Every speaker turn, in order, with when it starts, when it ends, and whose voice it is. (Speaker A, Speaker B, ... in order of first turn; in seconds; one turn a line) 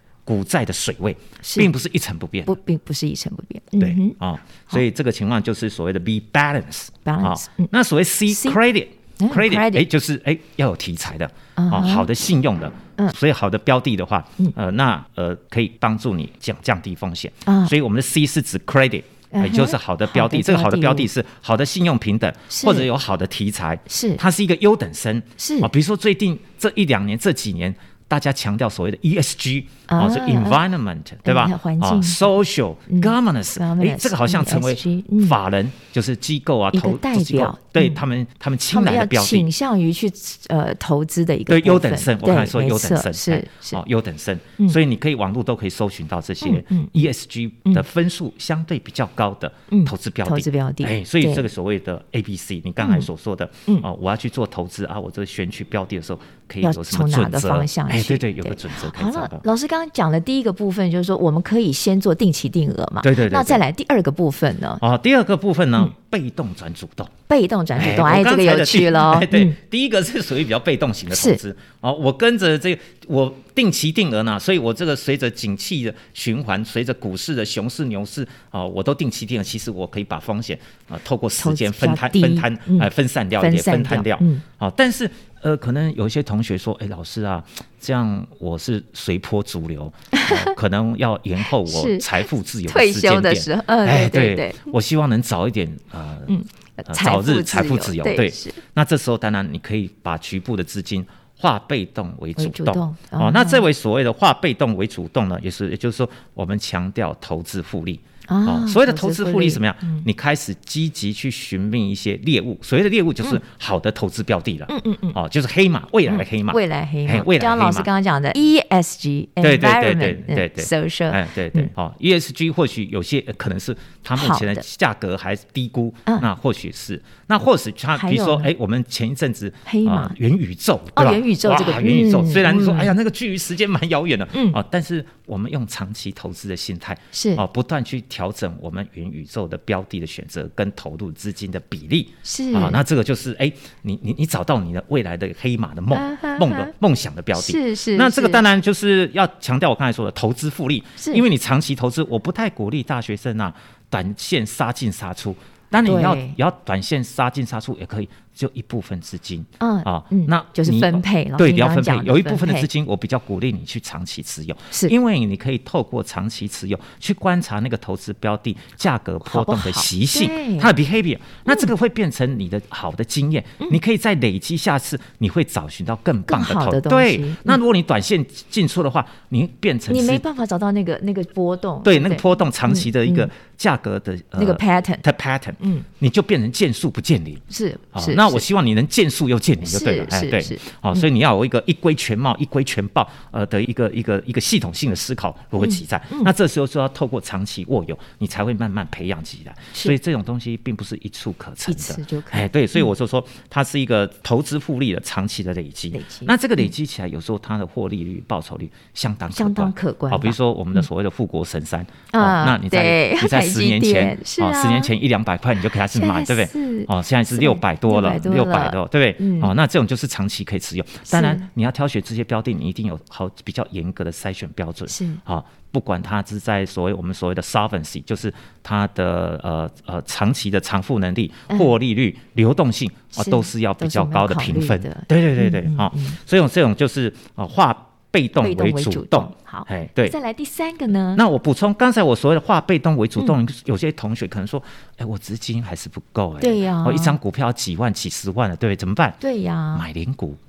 Speaker A: 0.2-2.5
Speaker B: 1.4-1.7
Speaker B: 2.5-4.2
Speaker A: 3.8-39.5
Speaker B: 7.0-7.7
Speaker B: 8.3-8.6
Speaker B: 9.2-9.8
Speaker B: 11.6-12.1
Speaker B: 17.4-17.7
Speaker B: 19.3-21.1
Speaker B: 22.5-22.9
Speaker B: 23.9-24.2
Speaker B: 25.4-25.7
Speaker B: 29.9-30.6
Speaker B: 31.2-32.3
Speaker B: 32.9-35.4
Speaker B: 36.7-38.0
Speaker B: 38.7-43.8
Speaker A: 41.5-59.4
Speaker B: 46.4-46.9
Speaker B: 49.7-51.5
Speaker B: 52.8-53.1
Speaker B: 56.6-64.8
Speaker A: 63.0-63.6
Speaker A: 64.8-67.1
Speaker B: 67.3-69.6
Speaker A: 67.7-96.3
Speaker B: 71.1-71.4
Speaker B: 81.4-84.4
Speaker B: 90.1-90.5
Speaker B: 91.5-94.7
Speaker B: 96.3-98.6
Speaker A: 96.9-117.9
Speaker B: 102.4-103.6
Speaker B: 108.3-110.0
Speaker B: 114.7-115.2
Speaker B: 116.1-121.7
Speaker A: 119.4-180.2
Speaker B: 124.2-124.6
Speaker B: 128.0-128.5
Speaker B: 129.7-130.2
Speaker B: 130.9-132.9
Speaker B: 134.3-134.6
Speaker B: 137.1-137.4
Speaker B: 142.2-142.8
Speaker B: 145.9-146.7
Speaker B: 147.3-148.4
Speaker B: 151.0-151.2
Speaker B: 155.8-156.4
Speaker B: 159.6-162.7
Speaker B: 169.2-170.7
Speaker B: 176.3-177.6
Speaker B: 179.9-183.3
Speaker A: 181.8-187.4
Speaker B: 184.4-185.0
Speaker B: 185.6-185.9
Speaker B: 187.5-188.4
Speaker A: 187.9-240.1
Speaker B: 189.6-190.6
Speaker B: 195.6-196.3
Speaker B: 201.7-202.9
Speaker B: 205.9-206.3
Speaker B: 209.3-210.4
Speaker B: 212.1-214.9
Speaker B: 215.9-219.5
Speaker B: 221.1-221.4
Speaker B: 224.9-225.2
Speaker B: 233.2-236.2
Speaker B: 238.4-241.2
Speaker A: 241.1-249.2
Speaker B: 246.4-247.2
Speaker B: 249.2-249.8
Speaker A: 249.7-250.4